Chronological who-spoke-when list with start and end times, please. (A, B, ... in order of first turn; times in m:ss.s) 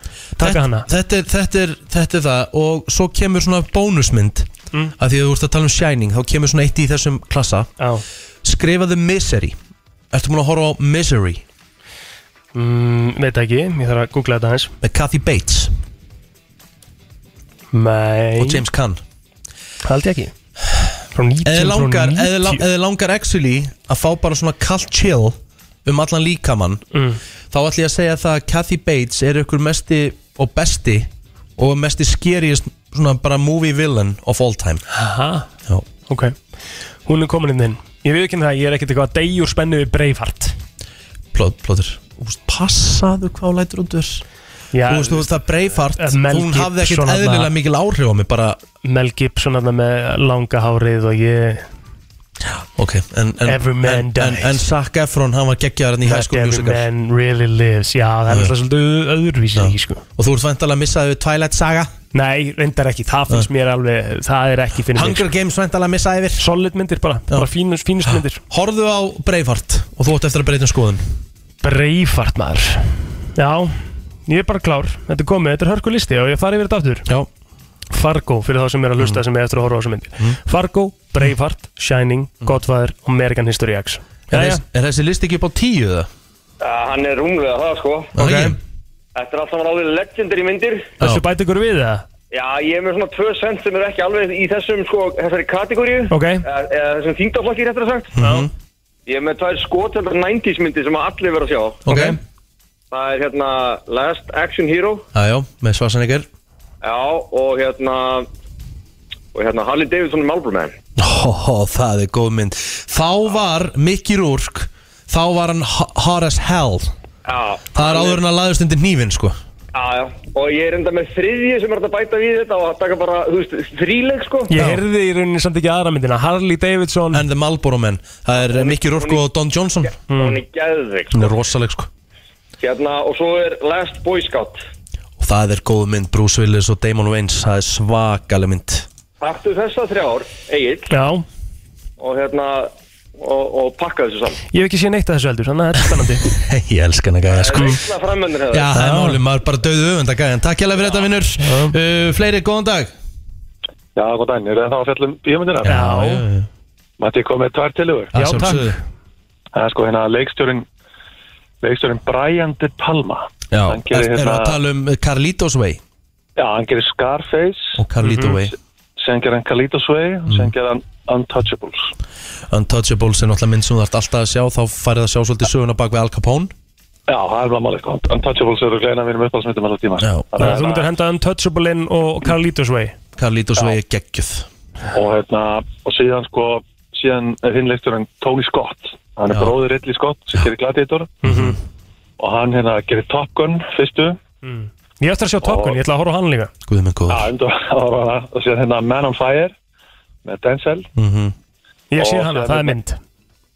0:00.4-0:07.7 A
0:00.4-0:00.9 B
0:08.4-0:09.6 A
0:10.1-0:11.4 A
0:12.5-0:14.7 B
0:14.8-0:15.7 A
0:17.7-0:18.6 B
0:18.4-0:19.0 A
0:19.8-0:20.3 B
0:21.1-0:22.6 B
0:21.4-0:26.8 A
0:26.9-0:27.2 B
0:27.5-0:34.8 A
0:34.9-0:35.5 B
0:36.1-0:36.4 B
0:37.0-0:40.6 B
0:41.3-0:44.2 A
0:44.7-0:45.4 B
0:44.8-0:48.6 A
0:45.9-0:47.5 B
0:48.8-0:51.7 B
0:52.4-0:56.8 A
0:53.4-0:54.6 B
0:56.0-1:00.0 B
0:59.5-1:01.9 A
1:02.1-1:05.2 B
1:04.9-1:06.4 A
1:06.4-1:08.4 B
1:08.0-1:11.0 A
1:11.6-1:17.1 B
1:17.9-1:24.6 B
1:24.3-1:26.1 A
1:26.6-1:28.2 C
1:28.1-1:28.6 A
1:28.2-1:28.5 B
1:29.1-1:30.9 C
1:31.0-1:32.0 B
1:32.3-1:38.2 C
1:36.1-1:36.4 B
1:38.1-1:38.5 A
1:38.2-1:38.4 B
1:39.0-1:41.8 C
1:41.8-1:42.2 A
1:41.9-1:42.2 B
1:42.9-1:45.1 C
1:45.1-1:46.3 A
1:46.8-1:48.3 C
1:49.3-1:50.8 C
1:51.0-1:56.9 A
1:57.2-1:58.2 C
1:57.7-1:59.4 A
1:59.7-2:04.5 C
2:04.5-2:07.2 B
2:04.5-2:04.8 A
2:07.1-2:09.9 A
2:08.4-2:09.2 C
2:10.1-2:10.4 B
2:10.1-2:11.4 C
2:11.1-2:11.9 A
2:12.6-2:14.6 C
2:15.2-2:18.9 A
2:19.2-2:20.9 C
2:20.9-2:21.2 B
2:22.0-2:24.4 C
2:24.5-2:26.3 B
2:26.0-2:27.8 A
2:27.3-2:28.7 C
2:28.5-2:32.9 A
2:28.7-2:29.2 B
2:31.4-2:31.8 B
2:33.9-2:35.8 D
2:35.6-2:36.5 A
2:35.6-2:36.2 B
2:37.0-2:38.1 D
2:38.1-2:38.8 A
2:38.1-2:38.8 B
2:39.5-2:40.6 D
2:41.6-2:44.6 D
2:43.5-2:45.8 A
2:46.4-2:47.8 D
2:47.8-2:48.5 A
2:48.0-2:48.4 B
2:49.0-2:51.9 D
2:52.5-2:56.5 A
2:57.1-3:00.6 D
3:00.0-3:00.5 A
3:00.4-3:03.0 B
3:03.2-3:04.5 A
3:04.9-3:11.2 D
3:09.3-3:09.5 A
3:11.2-3:11.6 B
3:11.2-3:11.6 A
3:12.2-3:14.2 D
3:14.4-3:16.5 B
3:15.4-3:15.8 D
3:16.6-3:17.3 A
3:17.1-3:19.5 D
3:20.2-3:20.9 D
3:21.0-3:21.4 A
3:21.9-3:23.0 B
3:22.0-3:22.8 D